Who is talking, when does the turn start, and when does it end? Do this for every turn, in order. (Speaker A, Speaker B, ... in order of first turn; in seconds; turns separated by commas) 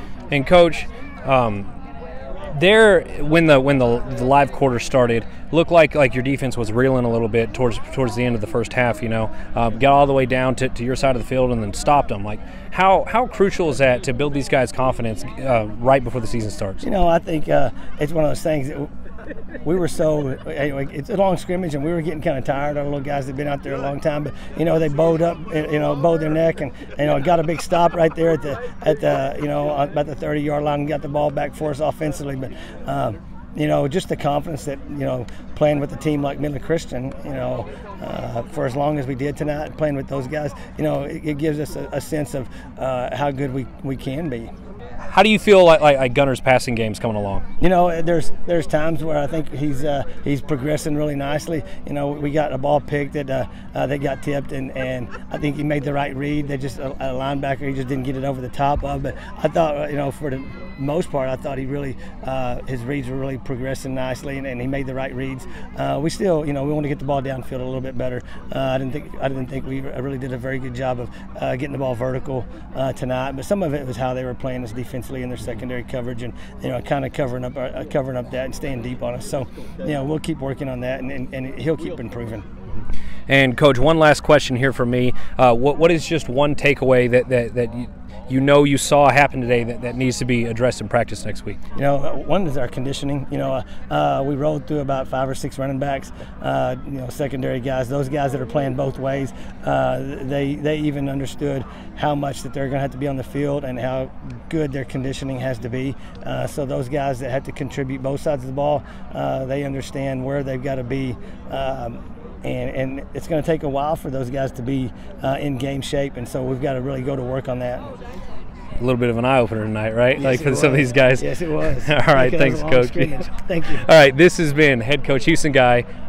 Speaker A: 0.3-1.7, Speaker A: 2.5-16.8, Speaker B: 16.8-18.9, Speaker B: 19.6-44.5, Speaker A: 45.0-47.4, Speaker B: 47.6-82.5, Speaker A: 83.3-91.6, Speaker B: 91.8-118.0, Speaker A: 118.8-121.3, Speaker B: 120.2-123.9, Speaker A: 121.8-125.8